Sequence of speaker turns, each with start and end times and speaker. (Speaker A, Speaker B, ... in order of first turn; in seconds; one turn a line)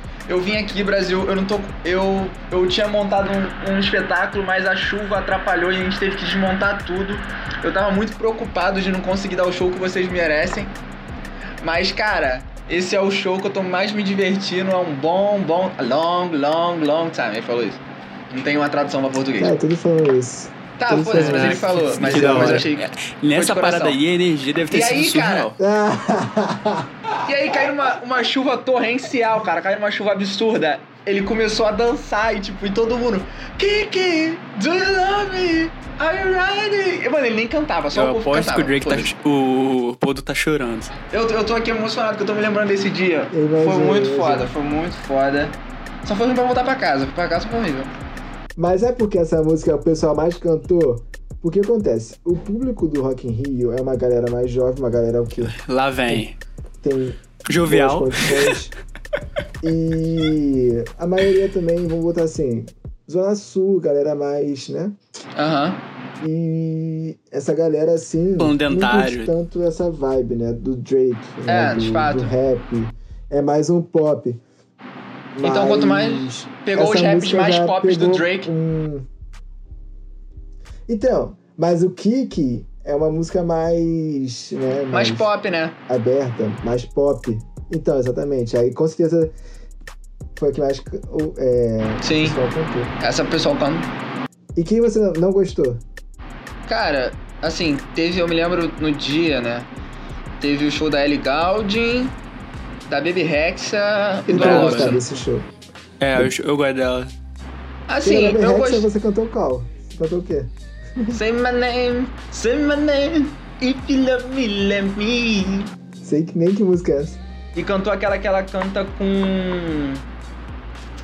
Speaker A: 0.3-10.7
Speaker A: 11.6-19.6
Speaker B: 19.4-22.7
Speaker A: 20.8-24.0
Speaker C: 21.2-25.6
Speaker A: 24.7-25.5
Speaker B: 25.6-26.9
Speaker A: 27.2-39.1
Speaker C: 37.9-40.9
Speaker A: 41.1-47.9
Speaker B: 43.3-44.5
Speaker B: 48.6-55.6
Speaker C: 55.5-56.4
Speaker B: 56.8-58.7
Speaker C: 57.5-58.6
Speaker B: 59.6-65.0
Speaker A: 65.4-65.8
Speaker B: 66.2-74.4
Speaker C: 68.4-69.3
Speaker A: 71.5-72.3
Speaker B: 75.3-79.1
Speaker A: 75.4-78.5
Speaker B: 80.9-85.3
Speaker A: 84.9-85.8
Speaker B: 85.9-89.3
Speaker B: 90.3-92.9
Speaker A: 92.0-92.4
Speaker A: 93.0-93.9
Speaker B: 94.5-95.8
Speaker A: 96.7-99.7
Speaker A: 100.4-102.1
Speaker A: 102.9-105.0
Speaker B: 104.3-105.5
Speaker C: 104.3-105.0
Speaker C: 106.0-107.1
Speaker A: 107.9-108.9
Speaker B: 108.0-111.2
Speaker A: 111.1-115.7
Speaker B: 116.0-117.2
Speaker A: 117.5-120.0